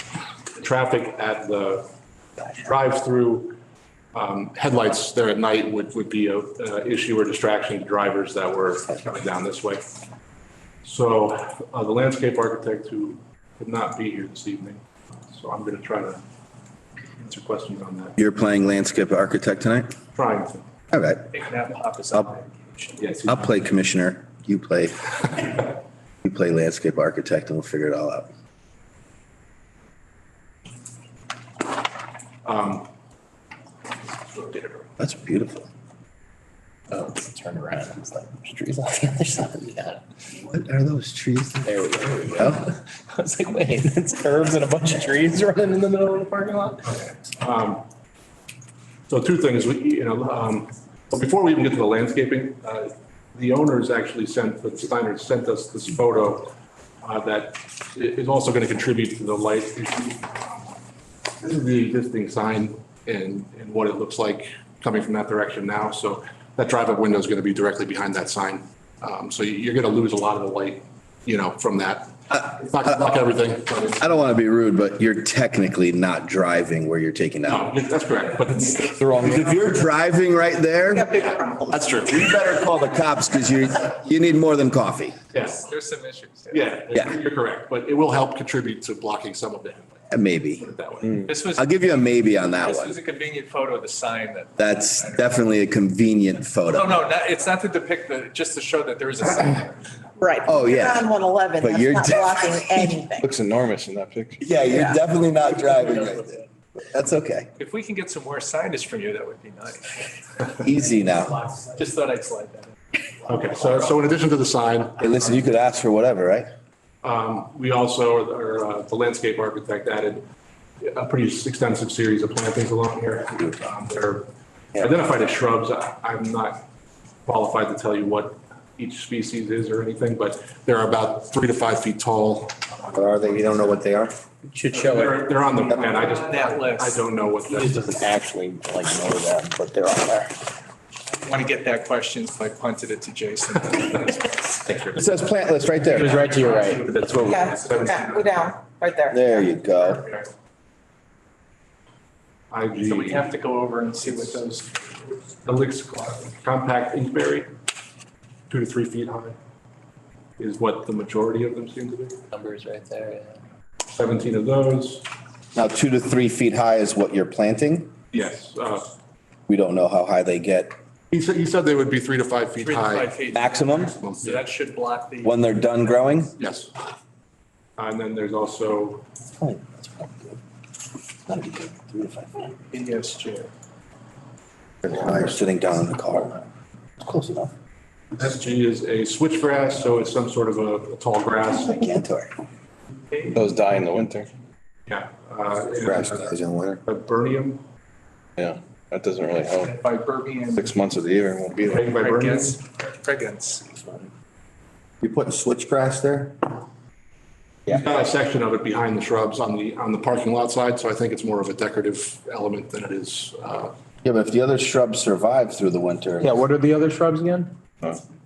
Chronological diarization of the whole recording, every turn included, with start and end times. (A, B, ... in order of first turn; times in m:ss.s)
0:00.5-0:01.9 A
0:02.6-0:03.6 A
0:04.1-0:09.8 A
0:10.8-0:16.2 A
0:17.2-0:18.2 A
0:18.2-0:19.9 B
0:20.2-0:20.6 A
0:20.9-0:21.3 B
0:21.3-0:23.0 C
0:23.0-0:23.5 A
0:23.3-0:25.7 B
0:26.2-0:28.3 B
0:32.4-0:32.9 A
0:34.2-0:34.9 A
0:35.0-0:35.7 B
0:36.9-0:40.0 D
0:40.5-0:42.6 B
0:41.6-0:47.0 D
0:47.4-0:47.8 A
0:49.1-1:00.7 A
1:01.4-1:14.1 A
1:12.3-1:13.0 B
1:14.0-1:17.7 B
1:17.4-1:19.7 A
1:18.9-1:21.1 B
1:20.9-1:21.7 E
1:21.1-1:22.6 A
1:22.0-1:25.2 B
1:25.3-1:25.6 A
1:25.6-1:26.6 C
1:26.5-1:30.0 A
1:30.1-1:30.6 B
1:30.6-1:31.3 A
1:31.2-1:31.7 C
1:31.6-1:33.0 B
1:32.6-1:35.3 C
1:34.6-1:37.1 B
1:36.7-1:39.8 C
1:40.2-1:43.3 E
1:40.4-1:41.1 B
1:41.6-1:43.0 B
1:43.2-1:44.4 F
1:44.4-1:47.5 B
1:44.6-1:45.0 E
1:47.6-1:50.1 C
1:50.6-1:51.4 B
1:51.4-1:54.0 C
1:53.3-1:55.2 A
1:55.0-1:56.5 B
1:57.0-2:00.2 A
2:00.8-2:06.6 A
2:07.2-2:13.6 A
2:12.9-2:15.3 D
2:14.7-2:17.8 A
2:15.6-2:17.0 C
2:17.5-2:20.3 D
2:21.1-2:24.9 C
2:24.9-2:26.2 B
2:25.9-2:27.4 D
2:25.9-2:28.1 C
2:26.8-2:28.3 A
2:27.3-2:29.6 E
2:29.1-2:30.0 B
2:29.7-2:30.3 C
2:32.5-2:33.3 A
2:32.8-2:34.7 C
2:34.0-2:34.4 A
2:35.4-2:37.5 A
2:38.5-2:39.4 A
2:40.4-2:42.2 A
2:42.3-2:43.4 D
2:43.9-2:45.0 A
2:45.5-2:47.9 B
2:48.1-2:48.9 A
2:49.5-2:50.7 B
2:51.1-2:53.1 A
2:52.6-2:55.4 C
2:53.3-2:53.9 B
2:54.0-2:54.4 A
2:55.2-2:56.3 B
2:56.4-2:56.7 A
2:57.8-2:59.0 A
2:59.4-3:00.4 B
3:01.2-3:02.5 B
3:02.7-3:03.5 C
3:04.8-3:06.4 B
3:07.0-3:07.5 B
3:08.1-3:11.8 A
3:11.6-3:12.3 B
3:13.1-3:13.4 C
3:13.3-3:14.3 F
3:14.9-3:17.6 A
3:15.8-3:16.8 B
3:18.4-3:19.8 F
3:19.6-3:20.7 C
3:20.5-3:21.9 F
3:21.6-3:22.6 A
3:22.0-3:23.7 C
3:23.8-3:24.1 B
3:25.0-3:26.6 B
3:27.7-3:33.7 A
3:34.0-3:36.4 B
3:36.2-3:37.5 D